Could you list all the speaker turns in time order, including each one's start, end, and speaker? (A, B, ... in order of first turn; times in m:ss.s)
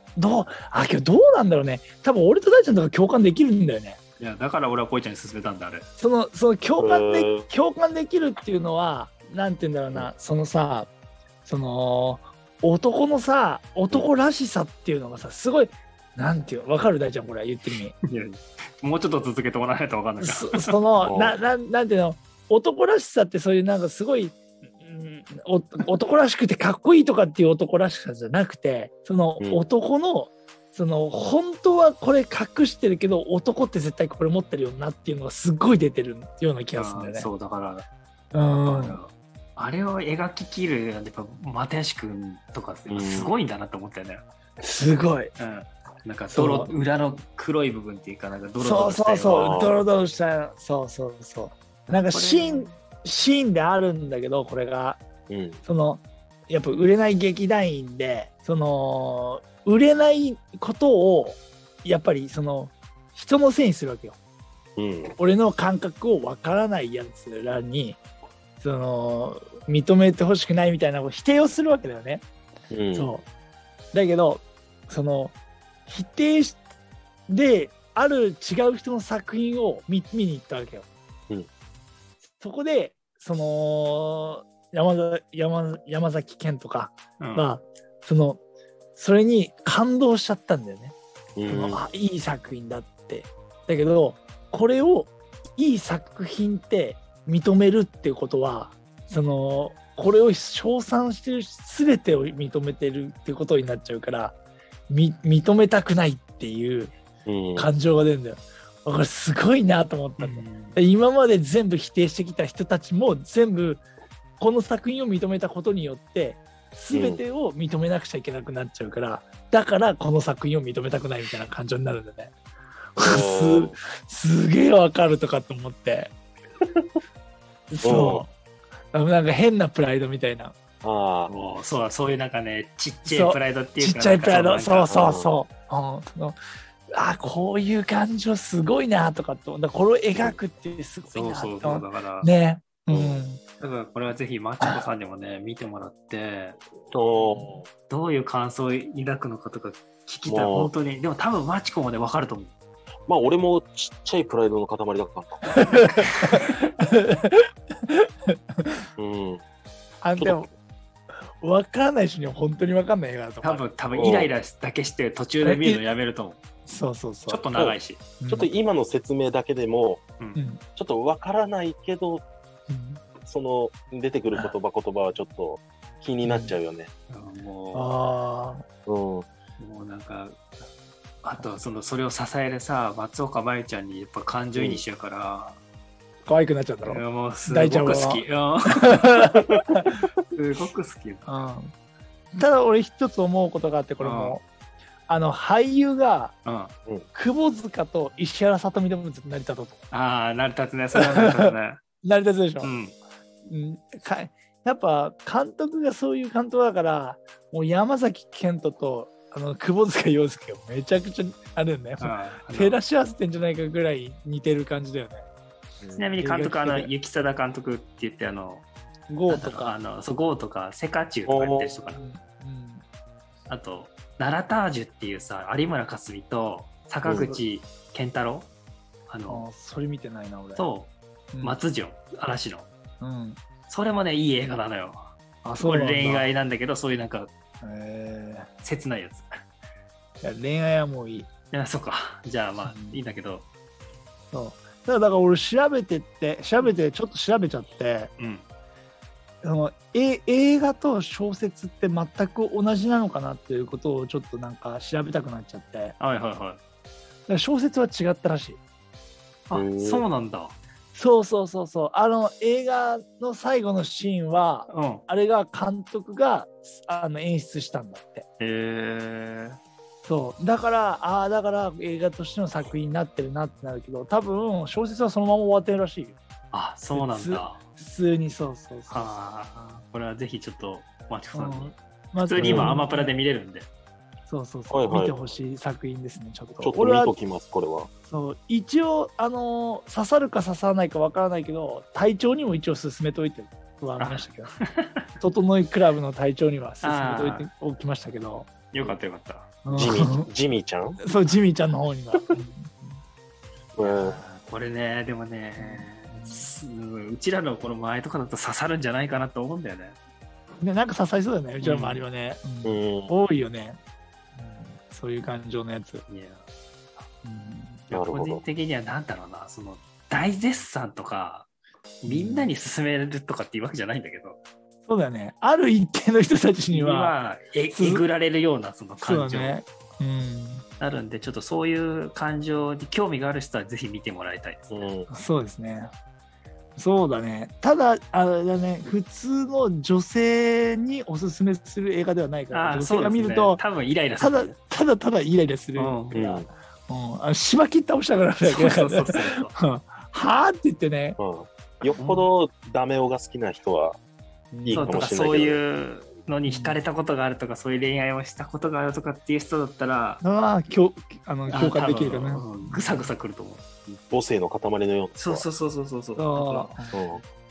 0:00.2-0:04.0 A
0:04.2-0:05.9 B
0:06.0-0:10.9 A
0:06.8-0:07.5 C
0:11.4-0:18.0 A
0:18.1-0:20.8 B
0:20.2-0:37.3 A
0:21.0-0:21.4 C
0:36.7-0:44.2 B
0:38.3-0:39.0 A
0:42.9-0:43.3 C
0:44.6-0:45.3 A
0:45.4-0:49.7 B
0:46.3-0:46.7 A
0:48.6-0:55.0 A
0:49.3-0:49.8 C
0:52.1-0:52.8 B
0:55.3-0:55.6 C
0:55.6-1:04.2 A
1:04.8-1:05.2 C
1:05.2-1:08.0 A
1:08.6-1:12.2 A
1:12.7-1:13.1 C
1:12.9-1:13.2 A
1:13.9-1:15.4 A
1:15.9-1:16.6 A
1:17.3-1:20.9 A
1:22.4-1:28.4 A
1:27.2-1:27.5 B
1:29.0-1:31.0 A
1:31.4-1:31.8 C
1:31.5-1:44.4 A
1:44.9-1:46.9 A
1:47.3-1:47.7 C
1:47.6-1:53.8 A
1:50.2-1:50.8 B
1:54.4-2:02.3 A
1:56.9-1:57.2 C
2:03.0-2:06.1 A
2:03.0-2:03.8 C
2:07.7-2:08.3 A
2:07.8-2:08.2 C
2:08.9-2:10.6 A
2:10.8-2:11.3 C
2:11.3-2:15.0 B
2:13.1-2:16.4 A
2:14.9-2:15.3 C
2:16.9-2:23.4 A
2:21.1-2:22.3 B
2:22.9-2:23.2 C
2:23.6-2:26.6 B
2:26.9-2:27.7 C
2:27.3-2:27.6 A
2:27.9-2:32.5 B
2:30.3-2:30.7 C
2:33.1-2:36.0 C
2:35.6-2:38.7 A
2:36.0-2:36.4 B
2:39.0-2:39.4 C
2:40.0-2:40.5 A
2:40.2-2:40.5 C
2:41.3-2:44.2 A
2:43.4-2:46.4 B
2:43.9-2:44.3 C
2:45.4-2:45.9 A
2:46.7-2:47.4 A
2:47.3-2:48.0 B
2:48.2-2:48.5 A
2:48.3-2:50.0 C
2:50.4-2:50.6 A
2:50.8-2:52.2 C
2:52.7-2:53.0 A
2:53.2-2:56.9 C
2:56.2-2:56.6 A
2:57.1-2:57.9 B
2:57.7-2:58.6 A
2:58.9-2:59.3 C
2:59.6-3:00.4 B
3:01.2-3:05.6 B
3:04.6-3:04.8 C
3:06.2-3:08.2 A
3:06.8-3:09.2 B
3:08.8-3:10.0 A
3:10.3-3:11.3 B
3:11.2-3:11.7 A
3:12.3-3:14.4 A
3:14.0-3:14.4 B
3:15.1-3:16.4 A
3:16.4-3:16.7 B
3:17.1-3:19.9 A
3:19.9-3:21.8 B
3:20.9-3:22.7 A
3:22.6-3:23.0 B
3:23.5-3:35.2 A
3:32.0-3:32.8 B
3:35.8-3:36.1 C
3:36.0-3:38.7 B
3:36.2-3:36.9 A
3:39.1-3:39.8 A
3:39.3-3:42.0 B
3:41.3-3:41.7 C
3:41.9-3:42.8 A
3:43.5-3:48.5 B
3:47.0-3:47.4 C
3:49.1-3:49.5 B
3:49.3-3:50.7 A
3:50.6-3:52.7 B
3:51.3-3:51.6 A
3:53.0-3:53.4 A
3:53.7-3:55.1 B
3:55.4-3:56.3 A
3:55.6-3:57.3 B
3:57.6-3:58.5 A
3:58.6-3:59.3 B
4:00.2-4:01.3 A
4:01.5-4:03.5 B
4:02.6-4:03.0 A
4:04.3-4:08.1 A
4:08.2-4:08.4 B
4:09.4-4:16.0 A
4:16.0-4:16.6 B
4:17.3-4:18.6 A
4:19.5-4:20.6 B
4:19.5-4:20.0 C
4:20.9-4:28.3 A
4:24.7-4:25.0 B
4:28.4-4:29.6 B
4:30.0-4:36.2 A
4:36.5-4:37.6 B
4:36.9-4:39.2 A
4:38.9-4:43.7 B
4:41.3-4:43.1 A
4:42.4-4:42.8 C
4:44.3-4:47.1 A
4:44.7-4:45.2 C
4:46.6-4:47.9 C
4:48.1-4:54.5 A
4:54.0-4:55.0 B
4:55.2-4:58.5 A
4:56.8-4:57.5 B
4:58.7-4:59.5 B
4:59.6-5:00.3 A
4:59.7-5:01.0 C
5:01.0-5:03.0 A
5:03.8-5:04.2 C
5:03.8-5:10.0 B
5:05.6-5:06.6 A
5:10.6-5:13.8 A
5:11.6-5:12.0 B
5:12.6-5:13.1 C
5:14.4-5:16.1 A
5:16.1-5:16.4 B
5:17.2-5:17.8 A
5:17.9-5:21.5 B
5:17.9-5:18.4 C
5:22.0-5:24.4 B
5:22.1-5:22.5 A
5:24.9-5:28.1 A
5:26.7-5:29.6 B
5:29.0-5:30.6 A
5:30.8-5:34.9 B
5:34.7-5:35.1 C
5:35.1-5:35.9 A
5:36.8-5:43.6 A
5:42.5-5:44.6 B
5:44.2-5:51.2 A
5:45.8-5:46.2 B
5:46.1-5:46.5 C
5:48.4-5:49.6 B
5:51.2-5:54.0 C
5:52.0-5:52.3 B
5:54.5-5:55.0 A
5:54.6-5:55.6 C
5:54.7-6:00.2 B
5:56.5-5:56.8 A
6:00.2-6:03.1 A
6:01.5-6:03.6 B
6:03.9-6:05.5 C
6:05.2-6:06.8 B
6:06.2-6:06.9 A
6:06.9-6:07.2 C